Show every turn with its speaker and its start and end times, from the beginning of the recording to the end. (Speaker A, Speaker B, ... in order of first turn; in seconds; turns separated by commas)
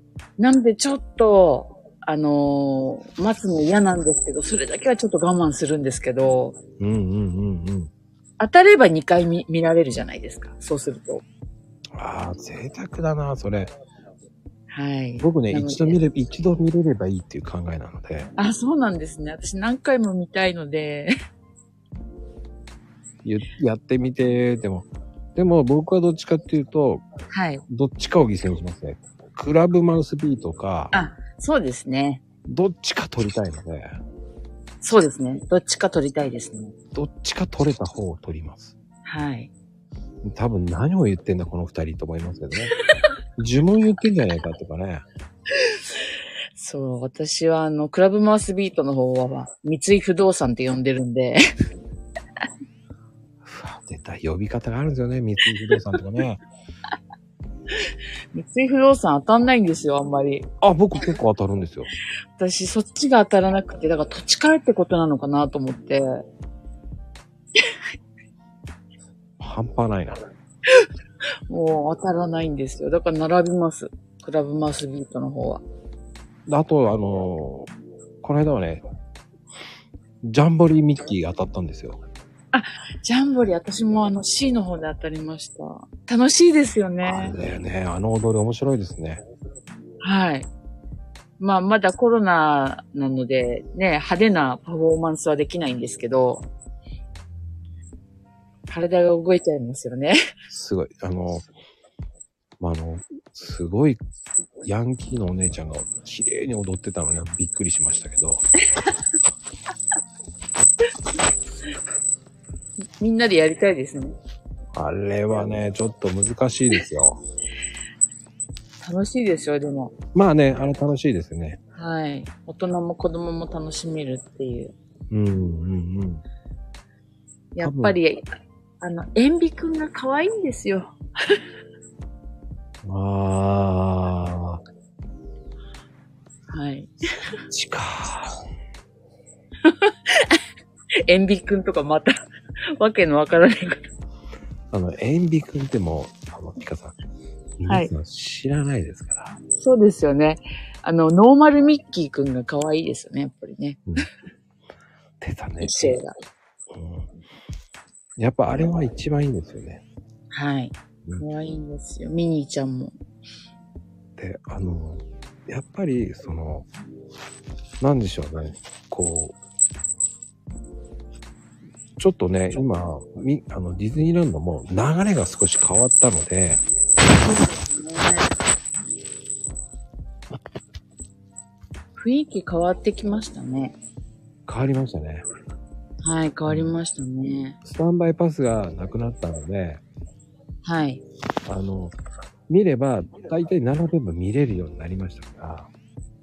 Speaker A: 0.4-6.6, Speaker B: 6.8-7.9, Speaker A: 8.4-11.2, Speaker B: 11.9-13.7, Speaker A: 14.7-16.0, Speaker B: 15.2-18.3, Speaker A: 18.4-21.1, Speaker B: 23.2-27.1, Speaker A: 27.3-27.6, Speaker B: 27.7-30.9, Speaker A: 30.9-32.2, Speaker B: 32.4-33.9, Speaker A: 34.8-36.7, Speaker B: 36.9-38.7, Speaker A: 39.0-39.5, Speaker B: 40.2-42.7, Speaker B: 43.4-45.0, Speaker A: 46.5-51.4, Speaker B: 53.4-56.4, Speaker A: 58.3-60.5, Speaker B: 60.6-61.9, Speaker A: 62.4-66.2, Speaker B: 69.4-70.2, Speaker A: 71.5-75.6, Speaker B: 76.5-77.7, Speaker B: 78.2-78.8, Speaker B: 80.2-82.0, Speaker A: 82.5-87.3, Speaker B: 87.0-89.2, Speaker A: 90.0-90.5, Speaker A: 91.4-96.5, Speaker A: 98.7-100.2, Speaker B: 100.5-101.5, Speaker B: 102.6-104.0, Speaker B: 104.6-108.5, Speaker A: 113.0-114.2, Speaker B: 114.7-117.2, Speaker A: 118.8-119.9, Speaker B: 120.1-121.6, Speaker A: 121.8-124.7, Speaker B: 125.1-126.2, Speaker A: 127.5-128.2, Speaker B: 127.6-128.0, Speaker A: 128.8-131.0, Speaker B: 132.8-134.6, Speaker A: 136.5-136.9, Speaker B: 137.5-138.4, Speaker A: 139.6-140.4, Speaker A: 141.1-142.2, Speaker A: 142.8-143.8, Speaker B: 144.7-146.9, Speaker B: 147.6-149.4, Speaker A: 149.6-153.8, Speaker B: 155.2-156.0, Speaker A: 155.6-156.1, Speaker B: 156.7-157.1, Speaker B: 158.2-159.8, Speaker A: 160.3-162.9, Speaker B: 164.2-166.7, Speaker B: 167.8-169.4, Speaker B: 172.0-176.6, Speaker A: 177.1-178.3, Speaker A: 182.0-183.8, Speaker B: 184.5-185.2, Speaker A: 186.0-187.6, Speaker B: 186.5-186.8, Speaker B: 187.6-189.8, Speaker A: 190.6-191.0, Speaker B: 191.4-191.9, Speaker B: 192.5-195.7